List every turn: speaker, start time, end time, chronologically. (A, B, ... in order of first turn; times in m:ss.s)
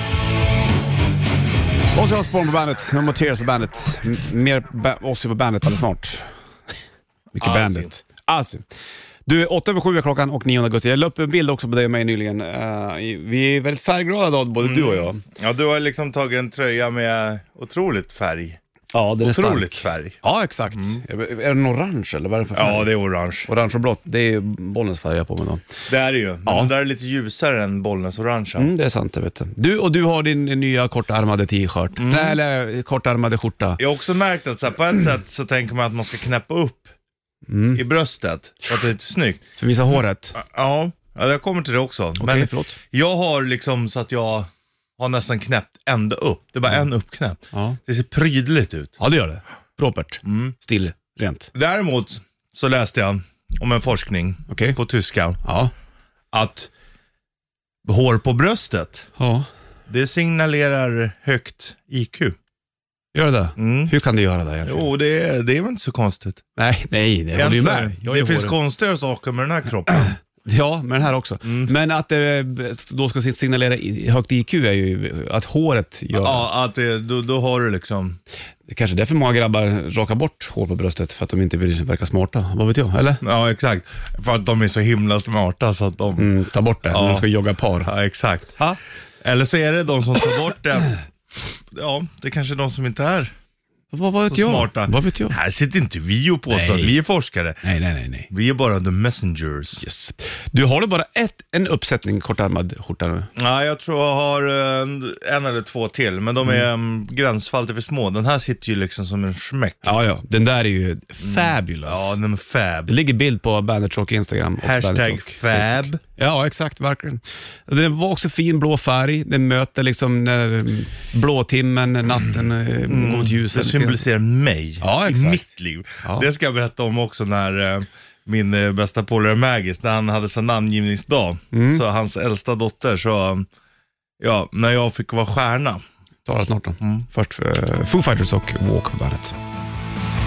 0:01.9-0:06.3 A
0:07.3-0:08.6 A
0:07.4-0:07.9 B
0:09.2-0:15.2 A
0:14.6-0:18.6 B
0:18.9-0:22.9 A
0:19.2-0:20.2 B
0:20.7-0:21.0 B
0:22.5-0:23.5 B
0:23.4-0:25.6 A
0:25.9-0:28.7 B
0:26.4-0:26.7 A
0:28.6-0:33.8 A
0:32.0-0:32.4 B
0:33.8-0:36.9 B
0:37.5-0:37.8 A
0:37.7-0:39.4 B
0:39.6-0:40.4 A
0:40.3-0:48.9 B
0:42.2-0:42.8 A
0:47.5-0:47.8 A
0:49.0-0:51.5 A
0:50.2-0:50.5 B
0:51.5-0:55.4 B
0:54.5-0:54.8 A
0:55.4-0:55.7 A
0:56.3-0:56.7 B
0:57.8-0:59.1 B
0:59.2-0:59.4 A
0:59.9-1:02.4 B
1:03.1-1:04.9 A
1:03.6-1:03.9 B
1:04.6-1:06.4 B
1:06.6-1:08.6 A
1:07.3-1:10.1 B
1:09.9-1:16.4 A
1:11.4-1:11.7 B
1:16.1-1:18.2 B
1:18.7-1:23.2 A
1:23.2-1:26.3 B
1:26.2-1:27.9 A
1:26.8-1:27.2 B
1:27.8-1:28.6 B
1:29.2-1:31.0 B
1:31.7-1:33.3 B
1:33.9-1:35.4 A
1:34.3-1:37.6 B
1:36.5-1:36.9 A
1:37.6-1:38.3 A
1:38.3-1:39.8 B
1:39.8-1:43.3 A
1:43.4-1:49.9 B
1:49.8-1:52.2 A
1:51.2-1:52.9 B
1:52.9-2:04.0 A
1:54.6-1:56.0 B
2:02.9-2:13.5 B
2:04.8-2:05.4 A
2:11.5-2:11.8 A
2:14.2-2:15.8 B
2:16.2-2:19.4 A
2:16.8-2:17.0 B